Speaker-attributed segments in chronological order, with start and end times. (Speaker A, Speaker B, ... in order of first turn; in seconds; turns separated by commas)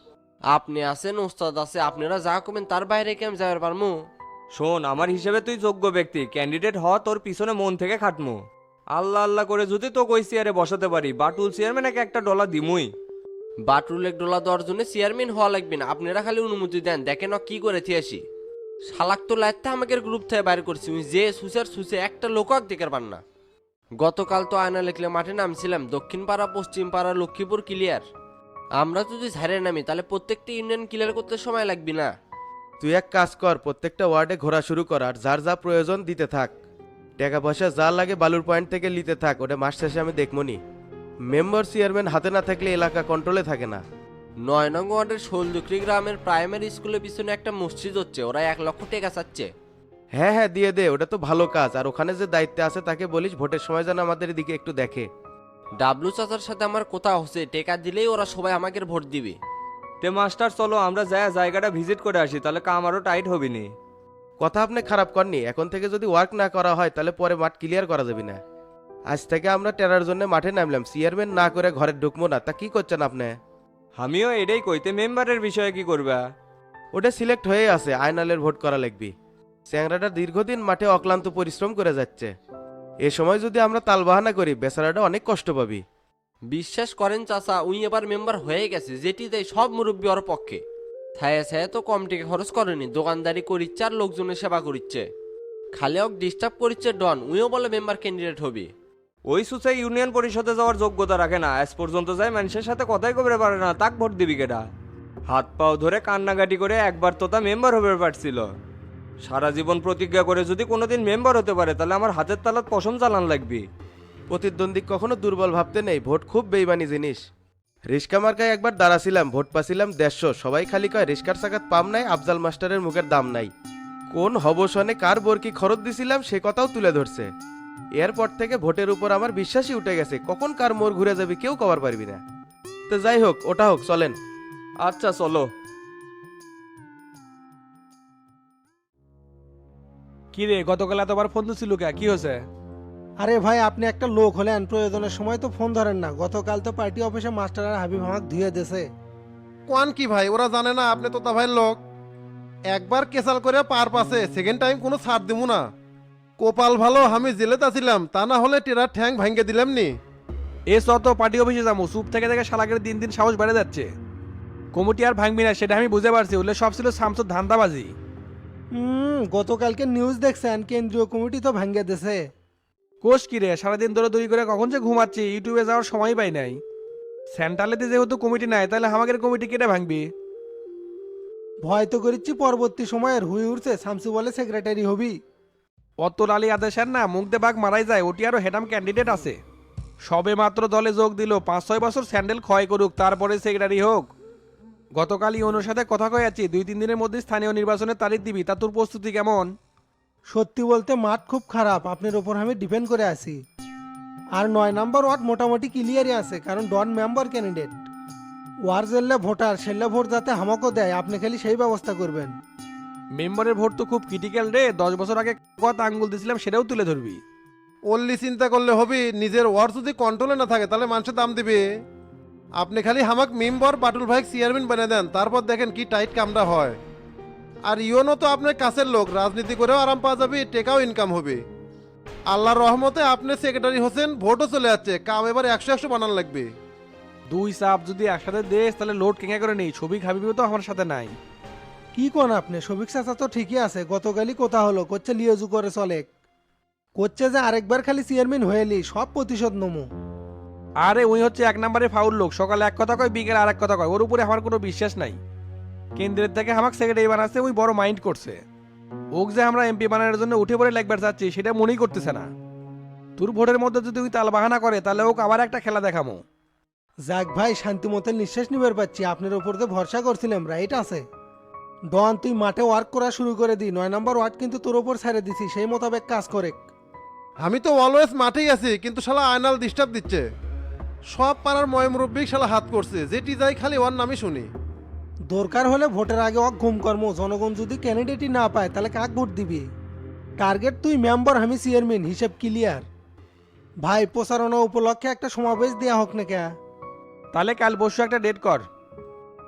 Speaker A: 0.5-3.9, Speaker B: 4.5-8.4, Speaker B: 8.9-12.9, Speaker A: 13.7-18.2, Speaker A: 18.9-23.2, Speaker A: 24.0-28.0, Speaker A: 28.8-32.1, Speaker C: 32.8-36.5, Speaker C: 37.2-40.6, Speaker C: 41.3-43.8, Speaker A: 44.4-49.5, Speaker C: 50.2-55.1, Speaker A: 55.8-59.4, Speaker B: 60.0-63.7, Speaker C: 64.4-68.4, Speaker C: 69.1-73.3, Speaker B: 74.0-76.2, Speaker C: 76.9-79.1, Speaker C: 79.7-82.3, Speaker C: 83.0-85.8, Speaker A: 86.5-90.6, Speaker A: 91.2-95.1, Speaker A: 95.7-98.7, Speaker B: 99.3-104.7, Speaker B: 105.3-108.5, Speaker B: 109.2-113.7, Speaker C: 114.3-117.2, Speaker C: 117.9-123.5, Speaker C: 124.1-127.3, Speaker C: 128.0-132.2, Speaker C: 132.9-134.2, Speaker B: 134.8-135.5, Speaker D: 140.3-142.4, Speaker E: 143.2-148.9, Speaker F: 149.7-151.8, Speaker F: 152.7-155.6, Speaker F: 156.4-159.9, Speaker D: 160.7-163.9, Speaker D: 164.7-167.9, Speaker E: 168.7-172.2, Speaker D: 173.0-176.6, Speaker D: 177.3-180.1, Speaker E: 181.6-185.2, Speaker D: 186.0-189.4, Speaker D: 190.0-194.1, Speaker D: 194.9-199.5, Speaker E: 200.3-203.4, Speaker E: 204.3-207.8, Speaker E: 208.6-212.4, Speaker D: 213.2-217.2, Speaker F: 217.9-221.6, Speaker F: 222.6-226.8, Speaker F: 227.7-231.4, Speaker F: 232.3-236.5, Speaker D: 237.3-241.1, Speaker E: 241.9-246.1, Speaker E: 247.0-249.9, Speaker D: 250.8-255.2, Speaker D: 256.0-258.4, Speaker D: 259.2-262.3, Speaker D: 263.2-266.2, Speaker E: 267.1-271.1, Speaker E: 271.9-276.6, Speaker F: 277.4-280.2, Speaker F: 281.1-284.5, Speaker E: 285.3-289.7, Speaker E: 290.4-292.9, Speaker E: 293.8-296.5, Speaker D: 297.3-298.7